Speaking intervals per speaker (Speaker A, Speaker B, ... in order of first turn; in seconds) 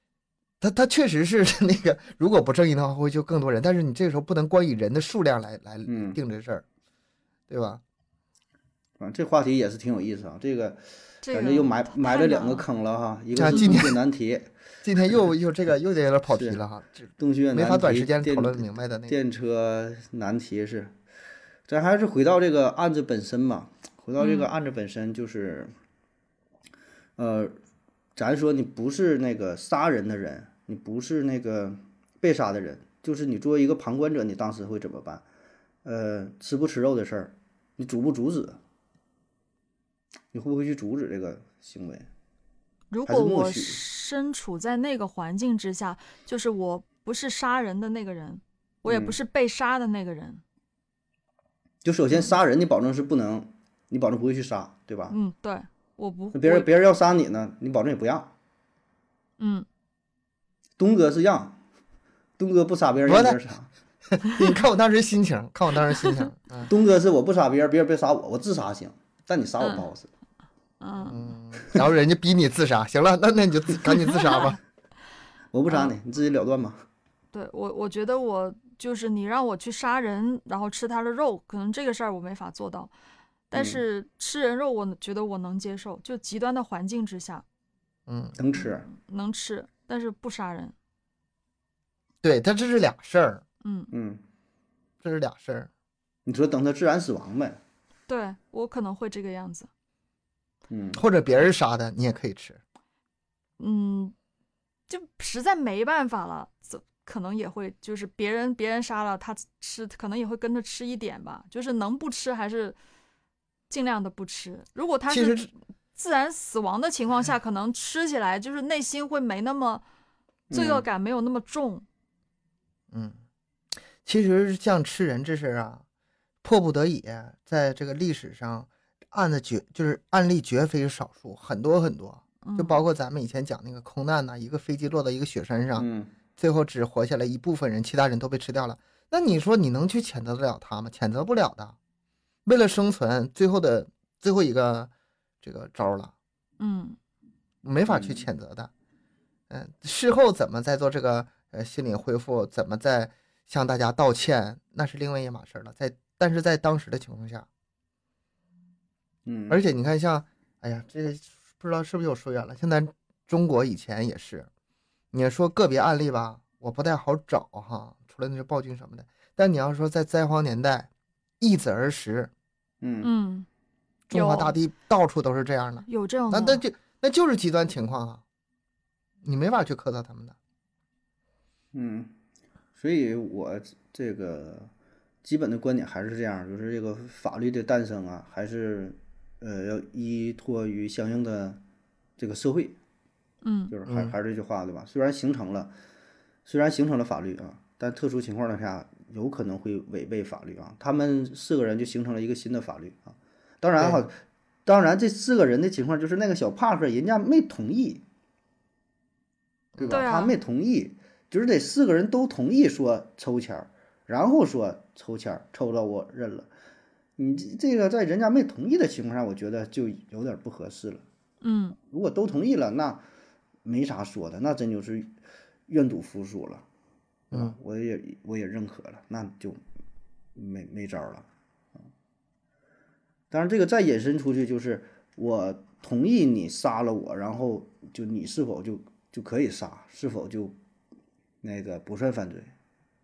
Speaker A: 0.6-6.6, 7.5-7.8, 13.4-14.0, 14.8-19.1, 63.1-63.4, 64.1-66.7, 71.1-74.6, 88.1-88.3, 92.2-93.4, 95.0-95.7, 100.9-102.6, 115.1-115.5, 122.9-123.2, 124.0-125.8, 126.4-141.8, 142.4-144.9, 145.4-146.1, 147.6-148.7, 149.5-157.5, 159.5-164.5, 165.1-170.9, 171.4-172.3, 174.1-178.2, 179.2-180.3, 193.9-194.1, 203.8-204.1, 209.7-210.0
Speaker B: 5.8-6.2, 9.0-14.5, 16.3-16.6, 17.2-20.9, 21.7-25.7, 27.2-27.6, 28.1-35.2, 35.8-38.6, 40.3-42.0, 43.1-43.8, 48.9-49.1, 51.8-55.1, 56.3-58.3, 60.8-61.6, 62.4-63.7, 66.7-70.1, 75.5-76.8, 83.5-83.8, 88.3-88.9, 93.9-94.2, 96.2-97.6, 100.7-101.0, 120.5-120.8, 135.8-136.1, 147.9-148.2, 159.2-159.6, 172.8-173.1, 181.7-182.1, 182.8-184.7, 185.2-191.6, 192.2-192.8, 193.7-195.7, 196.4-208.0, 209.8-216.5, 217.2-221.0, 221.9-223.0, 223.6-225.1, 225.7-226.6, 227.3-229.6, 230.3-231.3, 233.3-240.6, 241.4-242.5
Speaker C: 11.2-12.7, 24.2-24.5, 42.9-50.4, 55.1-56.7, 59.4-59.6, 70.8-71.3, 74.0-74.6, 77.3-82.9, 83.5-87.4, 88.9-90.7, 93.6-93.9, 98.1-99.7, 103.6-104.1, 104.9-112.8, 113.7-119.8, 120.5-121.8, 132.4-132.8, 146.6-147.0, 173.0-173.5, 174.1-174.5, 175.9-176.6, 193.4-193.7, 209.9-210.3, 221.4-221.8